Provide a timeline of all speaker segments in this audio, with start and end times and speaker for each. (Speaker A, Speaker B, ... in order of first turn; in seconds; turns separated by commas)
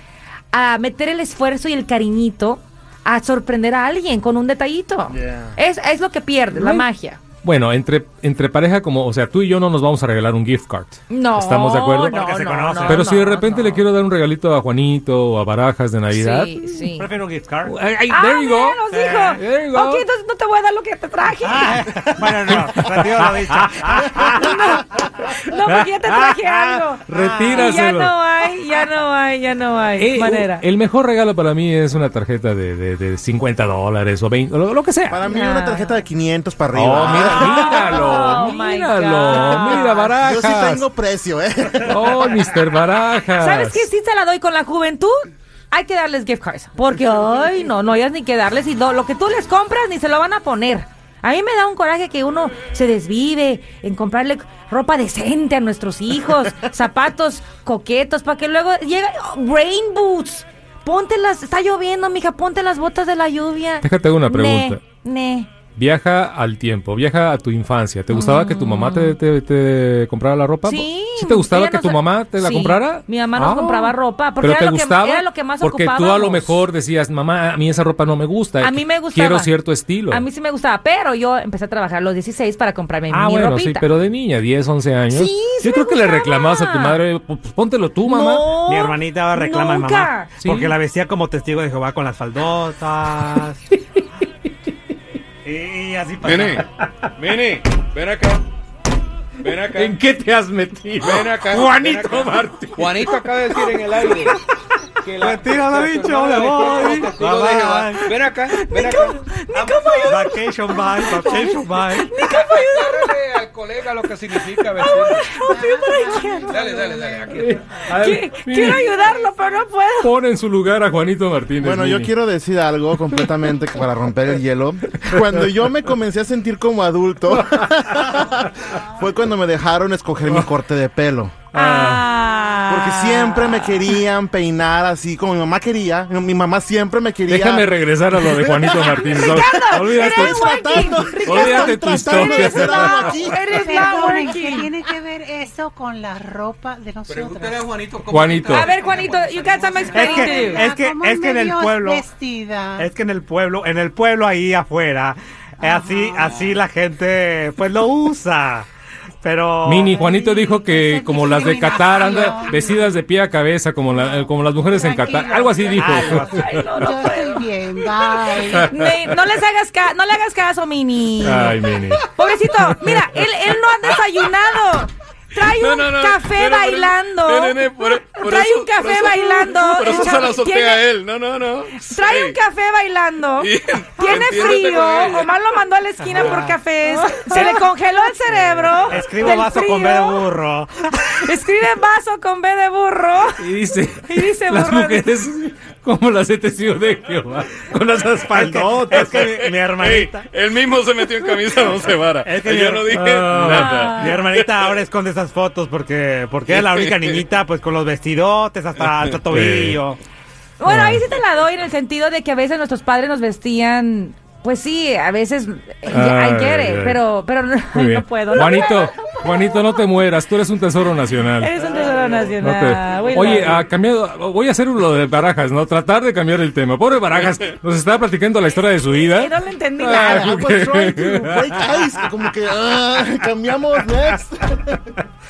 Speaker A: 0.5-7.2, Speaker B: 5.1-5.5, Speaker C: 6.5-6.8, Speaker C: 7.4-12.3, Speaker A: 11.1-13.8, Speaker D: 12.1-13.1, Speaker C: 12.8-16.9, Speaker A: 16.1-17.1, Speaker D: 17.0-17.7, Speaker C: 17.6-20.1, Speaker A: 18.1-22.0, Speaker D: 18.9-19.4, Speaker D: 21.4-24.5, Speaker C: 22.5-22.9, Speaker C: 23.6-24.1, Speaker A: 24.2-30.6, Speaker C: 25.7-26.5, Speaker C: 27.1-28.1, Speaker D: 27.1-27.8, Speaker C: 30.0-35.2, Speaker B: 35.1-38.3, Speaker A: 35.2-36.0, Speaker C: 36.7-40.9, Speaker A: 37.1-40.1, Speaker B: 39.3-42.4, Speaker C: 41.9-43.9, Speaker A: 43.4-65.5, Speaker C: 63.8-64.8, Speaker C: 65.8-80.2, Speaker A: 68.1-69.2, Speaker A: 70.7-76.6, Speaker A: 78.6-79.6, Speaker A: 80.1-83.9, Speaker C: 83.1-88.5, Speaker A: 85.1-87.0, Speaker A: 88.0-90.3, Speaker D: 88.7-93.6, Speaker C: 90.4-90.8, Speaker D: 95.4-96.7, Speaker E: 96.2-96.7, Speaker E: 97.2-98.4, Speaker E: 99.4-100.0, Speaker C: 99.5-103.7, Speaker E: 101.0-104.4, Speaker D: 101.2-102.4, Speaker E: 105.0-110.2, Speaker D: 105.2-108.2, Speaker A: 108.5-113.2, Speaker D: 110.0-112.2, Speaker E: 112.3-115.4, Speaker A: 114.3-116.8, Speaker F: 115.5-117.2, Speaker E: 116.5-117.6, Speaker C: 117.3-118.9, Speaker A: 117.9-120.1, Speaker F: 119.0-119.3, Speaker C: 120.0-122.1, Speaker B: 121.6-131.3, Speaker C: 131.5-132.1, Speaker A: 131.6-134.0, Speaker B: 132.7-143.4, Speaker C: 137.3-143.1, Speaker A: 138.8-144.7, Speaker F: 143.5-147.7, Speaker E: 147.1-150.2, Speaker C: 148.1-148.8, Speaker A: 148.5-150.7, Speaker D: 149.9-152.1, Speaker F: 150.0-152.9, Speaker D: 152.8-158.7, Speaker F: 155.6-156.3, Speaker D: 159.2-160.0, Speaker C: 159.7-166.9, Speaker F: 159.9-163.0, Speaker F: 163.9-168.7, Speaker D: 165.7-166.4, Speaker A: 166.2-167.5, Speaker A: 168.5-171.5, Speaker C: 171.2-172.1, Speaker A: 172.1-180.9, Speaker E: 175.4-182.4, Speaker A: 181.9-190.3, Speaker E: 183.4-185.3, Speaker D: 186.0-187.7, Speaker E: 188.4-188.9, Speaker D: 188.8-191.1, Speaker A: 191.1-193.5, Speaker C: 193.4-199.0, Speaker A: 194.0-195.1, Speaker D: 198.2-200.3, Speaker E: 198.7-204.8, Speaker D: 201.8-210.0, Speaker A: 203.5-204.1, Speaker E: 206.5-207.2, Speaker C: 209.2-209.8, Speaker A: 210.6-219.9, Speaker C: 210.6-211.1, Speaker C: 215.9-217.0, Speaker C: 217.7-221.6, Speaker A: 221.4-223.6, Speaker C: 222.4-232.1, Speaker A: 229.0-230.4, Speaker B: 229.8-234.9